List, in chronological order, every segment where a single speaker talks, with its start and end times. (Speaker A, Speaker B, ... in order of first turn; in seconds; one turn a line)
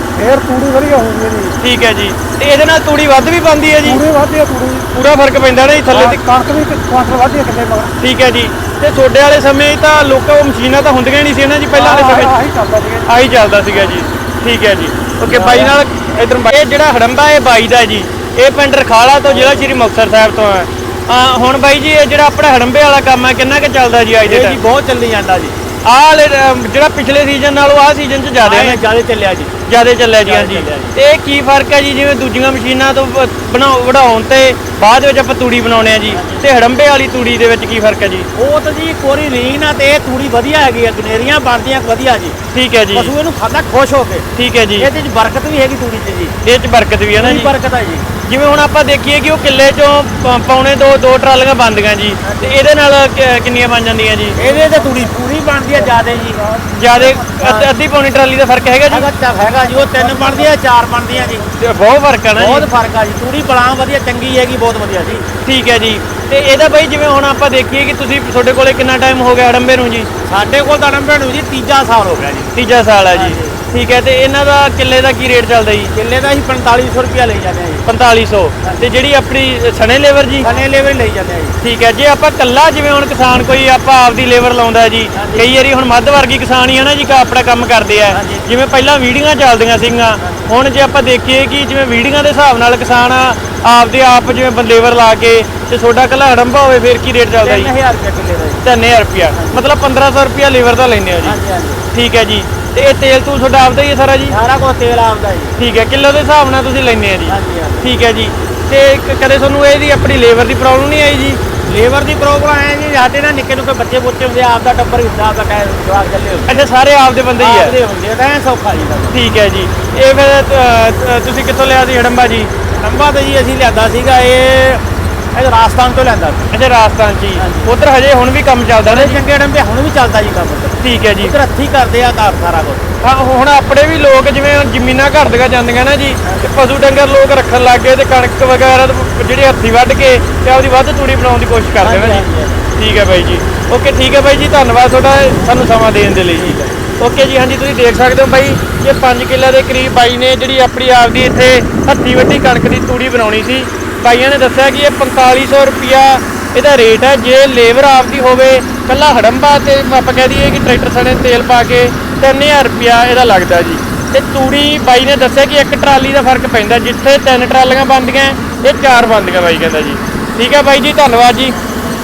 Speaker A: 0.1-1.6
Speaker B: 1.6-4.0
Speaker A: 3.8-4.9
Speaker B: 4.9-6.2
Speaker A: 5.9-7.9
Speaker B: 8.0-12.4
Speaker A: 11.7-13.2
Speaker B: 13.1-24.6
Speaker C: 15.3-15.7
Speaker C: 19.2-19.8
Speaker C: 24.2-25.6
Speaker B: 25.8-28.8
Speaker C: 28.4-29.5
Speaker B: 29.7-38.3
Speaker C: 30.2-30.9
Speaker C: 36.1-36.5
Speaker C: 38.4-42.4
Speaker B: 42.5-43.1
Speaker C: 42.9-46.4
Speaker B: 44.4-44.9
Speaker B: 46.4-47.5
Speaker C: 47.1-48.1
Speaker B: 48.2-54.4
Speaker C: 52.2-52.5
Speaker A: 54.4-55.2
Speaker C: 54.4-56.4
Speaker A: 55.7-57.5
Speaker B: 56.8-59.1
Speaker C: 57.4-57.7
Speaker C: 58.9-61.5
Speaker A: 59.6-60.5
Speaker A: 61.1-61.4
Speaker B: 61.5-62.7
Speaker C: 62.4-65.3
Speaker B: 65.4-70.1
Speaker C: 70.3-72.5
Speaker B: 72.5-75.9
Speaker C: 73.1-73.6
Speaker C: 75.9-77.9
Speaker B: 77.9-80.5
Speaker C: 78.6-78.9
Speaker C: 80.4-81.6
Speaker B: 81.6-97.7
Speaker C: 85.2-85.5
Speaker C: 88.1-88.5
Speaker C: 90.2-90.5
Speaker C: 97.4-98.6
Speaker B: 98.6-101.4
Speaker C: 99.3-99.6
Speaker C: 101.2-101.8
Speaker B: 101.9-104.4
Speaker C: 104.3-105.6
Speaker B: 105.6-111.4
Speaker C: 107.3-107.9
Speaker C: 111.7-116.6
Speaker B: 116.5-117.8
Speaker C: 117.4-119.2
Speaker B: 119.1-122.5
Speaker C: 122.7-124.8
Speaker C: 125.3-126.5
Speaker B: 126.5-129.2
Speaker C: 127.4-127.7
Speaker C: 128.8-132.8
Speaker B: 130.8-131.3
Speaker B: 133.0-142.2
Speaker C: 141.8-142.6
Speaker B: 142.8-171.6
Speaker C: 146.3-146.8